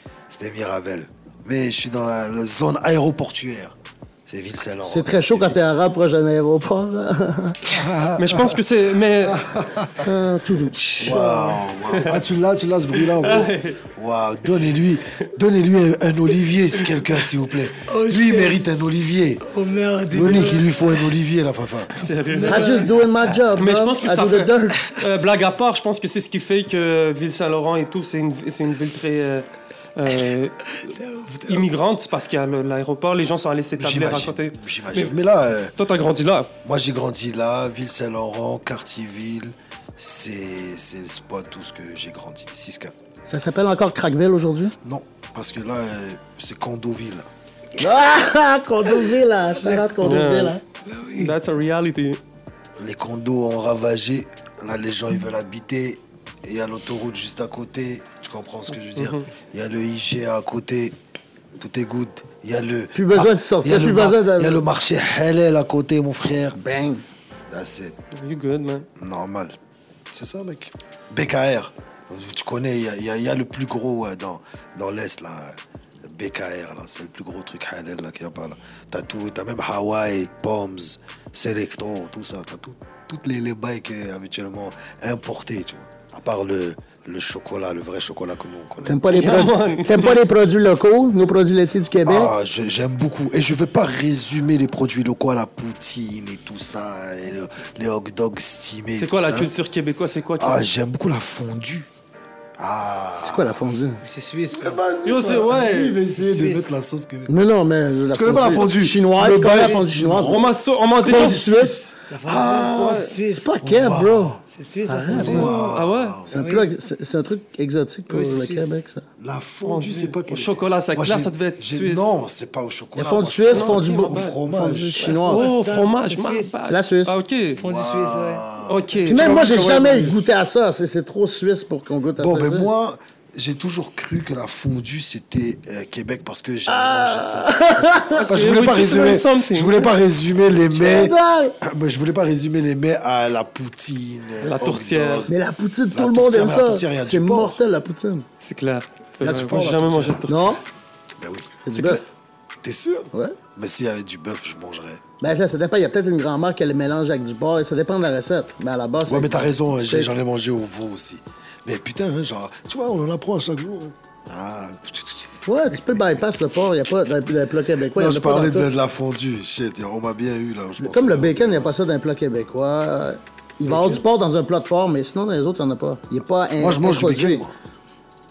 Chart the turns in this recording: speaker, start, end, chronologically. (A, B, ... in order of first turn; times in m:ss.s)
0:00.3-0:05.6 A
0:04.8-0:07.8 B
0:07.7-0:08.6 A
0:08.2-0:09.4 C
0:09.2-0:10.1 A
0:10.0-0:11.6 B
0:11.0-0:19.4 A
0:11.9-0:12.2 C
0:13.1-0:13.8 C
0:17.8-0:18.7 D
0:19.4-0:21.1 D
0:20.1-0:22.0 A
0:22.0-0:22.8 C
0:22.3-0:22.9 D
0:22.4-0:24.8 B
0:23.6-0:35.1 C
0:30.9-0:31.7 D
0:33.8-0:35.8 A
0:35.8-0:36.5 C
0:36.6-0:42.9 A
0:43.3-0:44.8 B
0:44.8-0:47.3 A
0:47.8-0:50.6 B
0:49.6-0:50.1 D
0:50.0-0:50.6 C
0:50.9-0:51.3 D
0:51.2-0:52.2 C
0:52.8-1:01.0 A
0:59.0-0:59.3 C
1:01.6-1:06.6 A
1:02.9-1:04.6 B
1:06.6-1:07.0 B
1:07.5-1:08.0 A
1:08.1-1:08.9 C
1:09.0-1:09.6 A
1:10.1-1:29.1 A
1:28.8-1:32.3 B
1:29.1-1:30.2 C
1:32.0-1:39.5 A
1:39.0-1:40.6 C
1:40.4-1:41.9 A
1:42.6-1:43.6 A
1:43.2-1:44.0 B
1:44.0-1:44.8 D
1:44.6-1:47.3 A
1:45.0-1:46.0 C
1:46.2-1:46.7 D
1:47.3-1:51.8 B
1:48.1-1:50.5 A
1:50.2-1:51.4 C
1:51.0-1:54.4 A
1:52.1-1:53.5 D
1:52.8-1:53.1 C
1:53.3-1:55.6 B
1:54.5-1:55.7 D
1:55.1-1:56.4 A
1:55.2-1:56.2 C
1:56.3-1:59.0 B
1:56.3-1:56.7 D
1:58.1-1:58.8 D
1:59.2-2:05.0 A
1:59.6-2:02.1 C
2:03.0-2:05.5 B
2:03.5-2:04.4 C
2:05.0-2:06.5 D
2:05.2-2:07.6 C
2:06.7-2:07.2 B
2:07.6-2:08.5 D
2:07.6-2:09.7 A
2:08.7-2:10.2 C
2:09.1-2:12.7 B
2:12.2-2:25.3 A
2:16.7-2:18.3 B
2:18.1-2:19.9 C
2:20.7-2:21.6 B
2:24.4-2:25.3 C
2:25.3-2:28.3 B
2:25.9-2:27.6 A
2:28.4-2:30.6 C
2:29.2-2:30.2 A
2:30.3-2:30.6 B
2:31.2-2:32.0 A
2:31.6-2:32.0 B
2:32.6-2:35.0 A
2:35.2-2:40.2 B
2:39.1-2:46.0 A
2:45.5-2:48.7 B
2:48.0-2:51.7 A
2:50.8-2:57.5 B
2:53.7-2:54.0 A
2:56.6-2:57.5 A